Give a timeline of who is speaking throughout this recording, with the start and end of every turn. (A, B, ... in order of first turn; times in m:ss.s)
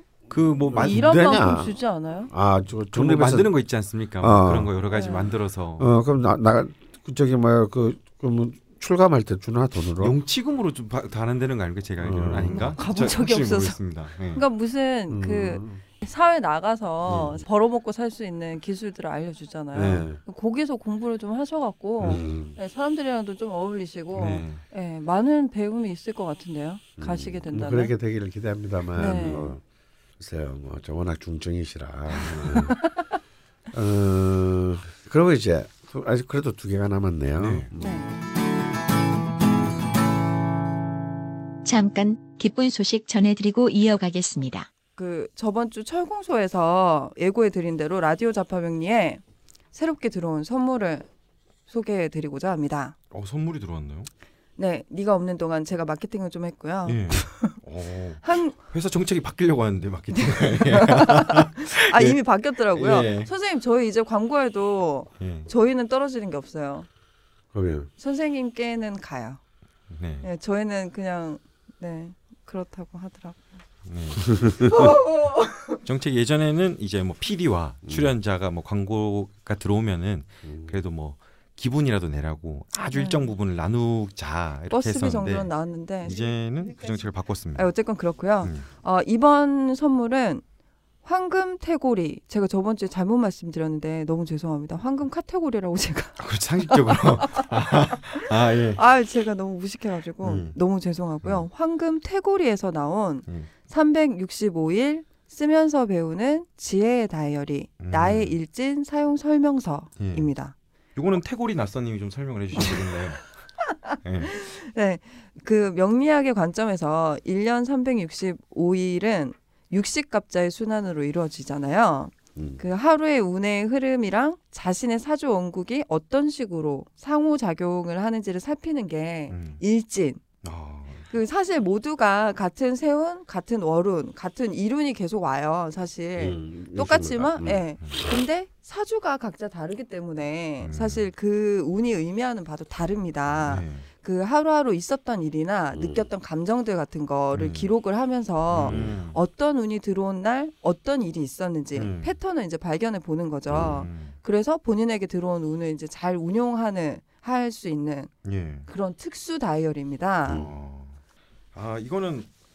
0:00.3-0:01.1 A
0:00.7-0:01.7 B
0:00.7-0:02.3 C
0:02.3-0:03.5 B
0:02.9-0:05.9 A
0:04.2-0:04.7 B
0:04.9-0:05.3 C
0:05.8-0:10.2 B
0:10.0-0:14.4 A
0:12.0-0:12.8 B
0:12.4-0:13.8 C
0:14.3-0:27.9 C
0:15.1-0:15.8 B
0:17.1-0:17.4 A
0:19.7-0:20.2 B
0:22.0-0:22.6 B
0:24.1-0:24.6 A
0:27.0-0:29.6 B
0:29.0-0:29.5 C
0:29.0-0:29.4 A
0:30.2-0:32.8 B
0:32.4-0:33.0 C
0:33.7-0:38.0 B
0:37.4-0:37.7 A
0:37.8-0:38.2 C
0:41.6-0:44.7 D
0:45.0-0:49.2 C
0:49.7-0:51.1 C
0:51.7-0:52.9 C
0:53.1-0:54.1 A
0:54.6-0:57.6 C
0:56.8-1:03.3 A
0:58.2-0:58.6 C
1:00.1-1:06.9 C
1:05.2-1:05.5 A
1:07.5-1:07.9 B
1:08.0-1:09.4 C
1:09.9-1:10.3 A
1:10.2-1:13.6 C
1:13.8-1:14.6 A
1:14.3-1:14.9 B
1:14.7-1:15.8 C
1:15.8-1:27.7 A
1:20.4-1:20.8 B
1:22.9-1:23.3 C
1:24.7-1:26.3 C
1:27.5-1:30.4 C
1:28.4-1:28.7 A
1:31.0-1:37.5 C
1:36.2-1:38.8 A
1:38.7-1:50.5 C
1:40.2-1:40.6 A
1:47.8-1:48.4 A
1:50.0-1:50.3 A
1:51.0-1:54.3 A
1:53.8-2:10.2 C
2:02.4-2:02.6 B
2:09.3-2:09.6 A
2:10.4-2:11.1 A
2:11.1-2:38.1 C
2:16.2-2:17.6 B
2:20.6-2:21.1 A
2:23.3-2:23.9 A
2:25.7-2:26.1 B
2:27.3-2:27.7 A
2:28.5-2:29.2 A
2:28.6-2:29.0 B
2:31.7-2:32.2 A
2:33.5-2:33.8 B
2:33.5-2:34.2 A
2:38.2-2:38.7 A
2:38.7-2:40.4 C
2:40.3-2:40.6 B
2:40.3-2:41.0 A
2:41.5-2:42.3 A